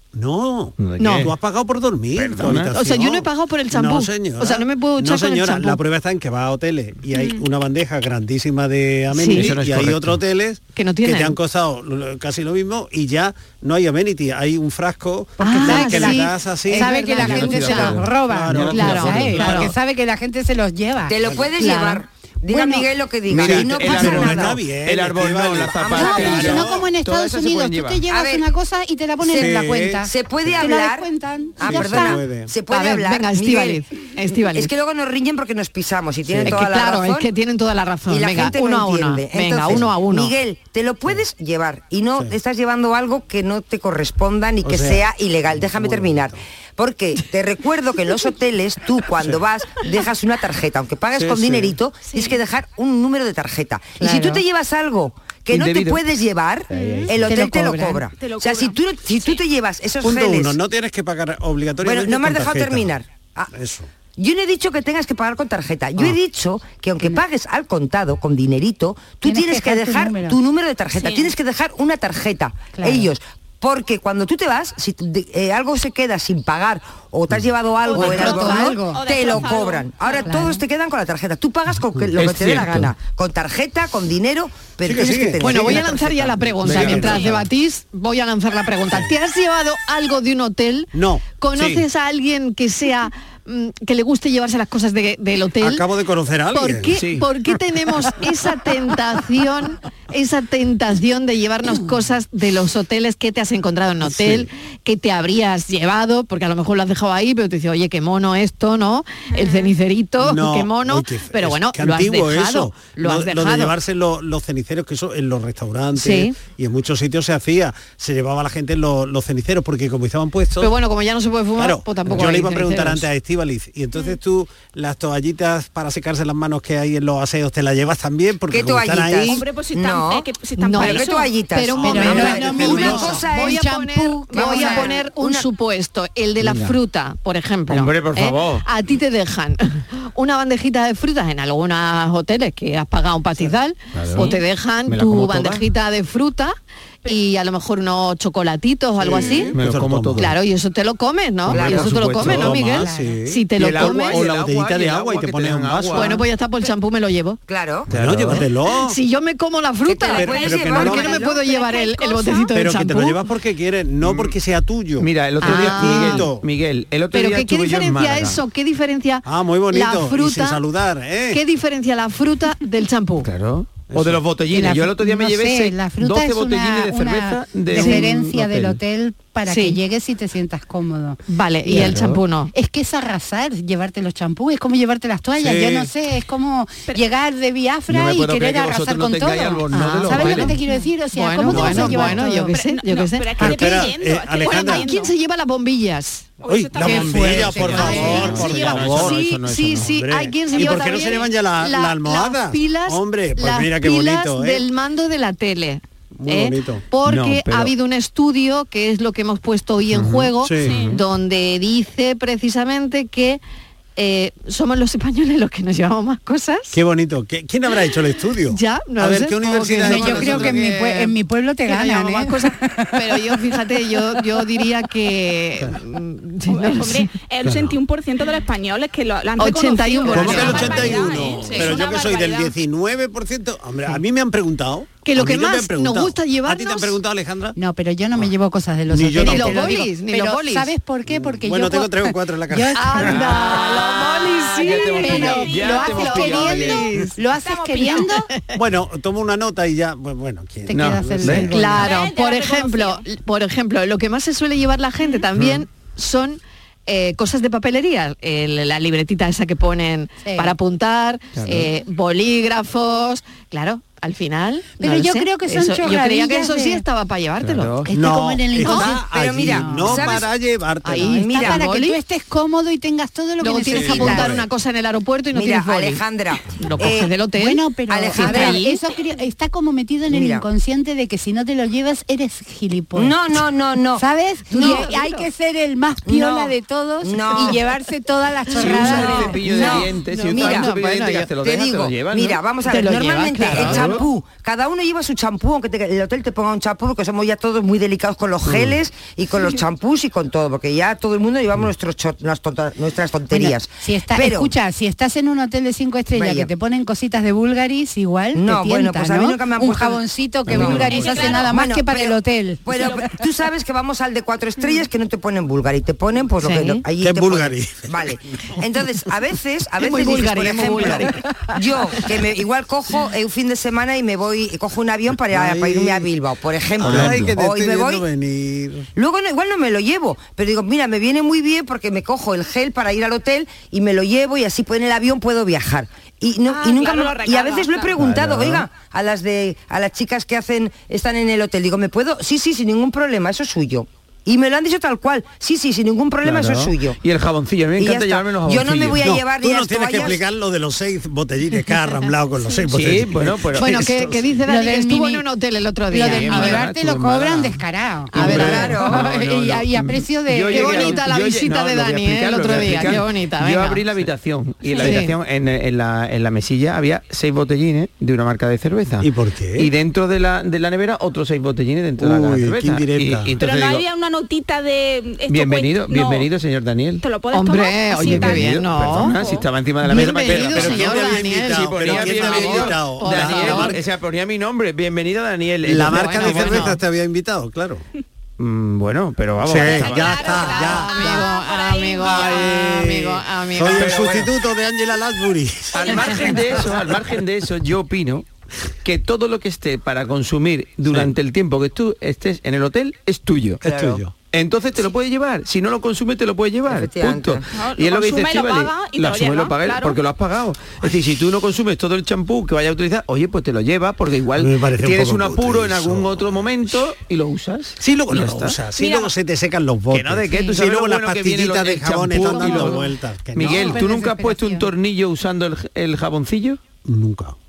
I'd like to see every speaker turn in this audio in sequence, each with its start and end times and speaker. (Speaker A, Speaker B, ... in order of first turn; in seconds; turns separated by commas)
Speaker A: 0.1-19.7, Speaker B: 0.8-1.4, Speaker C: 1.0-1.3, Speaker B: 2.1-2.7, Speaker C: 2.7-5.8, Speaker D: 7.1-7.4, Speaker C: 9.1-9.5, Speaker B: 9.3-10.2, Speaker C: 10.7-11.4, Speaker C: 15.4-18.0, Speaker E: 15.4-21.8, Speaker B: 16.9-19.7, Speaker C: 18.7-19.7, Speaker F: 21.1-24.6, Speaker A: 21.2-21.5, Speaker C: 21.6-21.9, Speaker B: 23.3-28.1, Speaker A: 23.3-26.8, Speaker F: 25.7-26.6, Speaker E: 25.9-32.2, Speaker F: 28.1-28.5, Speaker A: 29.2-30.6, Speaker F: 30.0-33.8, Speaker A: 31.6-32.5, Speaker C: 32.7-34.7, Speaker F: 34.5-37.3, Speaker A: 36.2-36.7, Speaker C: 36.4-40.3, Speaker F: 38.1-60.6, Speaker A: 39.6-39.9, Speaker A: 44.6-46.4, Speaker A: 49.1-49.4, Speaker A: 51.1-51.8, Speaker E: 54.0-54.4, Speaker B: 55.5-56.0, Speaker E: 56.8-58.0, Speaker D: 58.2-59.4, Speaker A: 60.0-63.0, Speaker F: 61.8-63.5, Speaker A: 63.5-63.9, Speaker F: 64.2-86.1, Speaker E: 69.2-70.4, Speaker D: 70.9-71.3, Speaker E: 72.7-73.1, Speaker D: 77.9-80.3, Speaker C: 77.9-78.8, Speaker E: 78.0-79.0, Speaker A: 78.0-78.3, Speaker E: 80.2-80.6, Speaker B: 82.2-82.9, Speaker A: 84.8-87.5, Speaker C: 85.4-95.8, Speaker B: 86.6-87.4, Speaker A: 90.9-91.8, Speaker A: 95.6-97.0, Speaker C: 96.5-113.7, Speaker B: 96.9-97.3, Speaker A: 104.0-104.5, Speaker D: 109.3-109.7, Speaker A: 110.2-120.7, Speaker C: 115.9-116.3, Speaker C: 120.6-123.0, Speaker A: 121.6-129.4, Speaker F: 128.5-133.7, Speaker D: 129.2-131.3, Speaker C: 130.6-149.5, Speaker A: 131.8-133.2, Speaker E: 131.8-134.9, Speaker F: 134.3-135.4, Speaker B: 136.4-136.8, Speaker B: 137.7-138.6, Speaker B: 143.9-145.7, Speaker A: 149.0-150.3, Speaker B: 149.5-150.3, Speaker C: 150.2-154.2, Speaker B: 151.4-152.6, Speaker F: 151.5-151.9, Speaker A: 151.6-156.2, Speaker E: 152.5-153.2, Speaker B: 153.6-156.2, Speaker C: 155.9-157.4, Speaker F: 157.5-157.9, Speaker A: 157.9-159.0, Speaker B: 157.9-158.4, Speaker C: 158.7-163.2, Speaker F: 159.9-161.3, Speaker A: 160.1-161.2, Speaker D: 160.4-162.5, Speaker A: 162.5-166.4, Speaker B: 164.0-164.3, Speaker B: 165.0-168.4, Speaker C: 165.4-166.3, Speaker C: 167.1-170.6, Speaker A: 169.2-171.4, Speaker C: 171.3-173.3, Speaker B: 173.2-178.8, Speaker A: 173.9-174.2, Speaker E: 174.5-181.9, Speaker C: 177.8-178.1, Speaker C: 179.4-179.8, Speaker C: 181.3-182.5, Speaker B: 181.7-182.2, Speaker E: 182.5-192.5, Speaker A: 185.4-185.9, Speaker B: 187.9-190.6, Speaker C: 189.7-190.6, Speaker C: 191.1-193.9, Speaker A: 191.7-192.0, Speaker D: 192.4-195.1, Speaker A: 193.4-194.9, Speaker C: 194.5-213.4, Speaker D: 196.4-198.2, Speaker A: 196.4-199.2, Speaker B: 197.1-199.9, Speaker A: 199.8-204.6, Speaker A: 206.1-206.8, Speaker B: 207.0-207.7, Speaker B: 209.9-210.3, Speaker A: 210.4-210.9, Speaker D: 210.6-211.0, Speaker C: 213.9-216.8, Speaker A: 216.7-220.6, Speaker C: 218.5-227.1, Speaker E: 219.8-223.5, Speaker D: 226.5-232.6, Speaker A: 227.4-227.8, Speaker C: 229.4-231.2, Speaker A: 230.1-237.6, Speaker C: 235.0-236.9, Speaker E: 237.5-243.6, Speaker A: 238.9-239.8, Speaker C: 239.2-240.7, Speaker A: 241.1-243.4, Speaker C: 242.7-247.2, Speaker B: 243.0-246.9, Speaker D: 244.6-248.2, Speaker E: 245.1-248.2, Speaker C: 247.9-248.4, Speaker A: 248.5-251.9, Speaker E: 250.7-251.6, Speaker B: 250.7-251.5, Speaker C: 251.5-269.0, Speaker D: 251.8-253.1, Speaker B: 255.4-255.6, Speaker E: 260.2-260.5, Speaker B: 261.3-261.7, Speaker E: 264.8-266.8, Speaker B: 267.4-267.9, Speaker E: 267.9-270.2, Speaker A: 267.9-271.2, Speaker F: 269.1-270.3, Speaker C: 270.8-272.0, Speaker E: 271.0-274.4, Speaker F: 271.0-271.7, Speaker C: 273.4-278.8, Speaker A: 273.7-274.4, Speaker F: 275.3-277.1, Speaker E: 277.3-283.2, Speaker F: 277.9-278.6, Speaker F: 280.1-280.5, Speaker F: 282.9-285.2, Speaker E: 283.9-289.8, Speaker C: 284.6-285.2, Speaker F: 286.0-287.6, Speaker C: 288.5-291.3, Speaker B: 288.6-292.4, Speaker F: 289.5-290.7, Speaker F: 291.4-304.6, Speaker C: 292.6-294.0, Speaker B: 293.4-294.0, Speaker A: 298.4-298.7, Speaker E: 303.3-312.6, Speaker F: 306.1-306.5, Speaker F: 308.3-328.1, Speaker A: 310.5-311.3, Speaker D: 310.9-311.5, Speaker D: 312.7-313.2, Speaker C: 316.4-316.8, Speaker A: 317.0-318.1, Speaker C: 319.8-321.2, Speaker A: 320.7-321.1, Speaker A: 325.2-326.1, Speaker A: 326.8-328.9, Speaker B: 326.8-327.2, Speaker F: 328.9-347.0, Speaker D: 336.5-337.9, Speaker A: 338.0-338.5, Speaker B: 338.0-338.6, Speaker B: 346.2-349.1, Speaker F: 347.8-350.2, Speaker A: 349.0-354.2, Speaker B: 352.7-353.9, Speaker C: 353.6-356.7, Speaker E: 354.4-355.2, Speaker E: 355.9-361.0, Speaker B: 356.0-373.8, Speaker C: 358.1-358.8, Speaker A: 358.2-358.5, Speaker F: 358.4-359.0, Speaker C: 360.5-363.8, Speaker D: 364.6-364.9, Speaker C: 364.8-365.1, Speaker A: 369.0-369.7, Speaker A: 372.0-373.3, Speaker D: 373.4-376.3, Speaker B: 375.3-377.0, Speaker D: 377.0-379.5, Speaker C: 377.3-379.2, Speaker B: 378.0-386.8, Speaker C: 379.8-383.8, Speaker A: 379.9-383.8, Speaker A: 385.6-387.8, Speaker C: 385.9-386.8, Speaker B: 388.4-390.4, Speaker A: 389.4-391.3, Speaker D: 389.6-392.6, Speaker C: 390.4-394.0, Speaker A: 392.0-396.7, Speaker B: 393.7-394.3, Speaker B: 395.7-398.2, Speaker B: 398.8-403.6, Speaker A: 400.9-401.1, Speaker A: 403.6-404.1, Speaker F: 403.6-404.0, Speaker B: 404.3-418.6, Speaker F: 406.7-407.4, Speaker D: 407.5-410.0, Speaker A: 414.3-416.8, Speaker A: 417.8-423.8, Speaker D: 418.7-419.1, Speaker B: 419.9-426.6, Speaker E: 422.2-422.8, Speaker E: 423.4-424.7, Speaker A: 426.9-427.3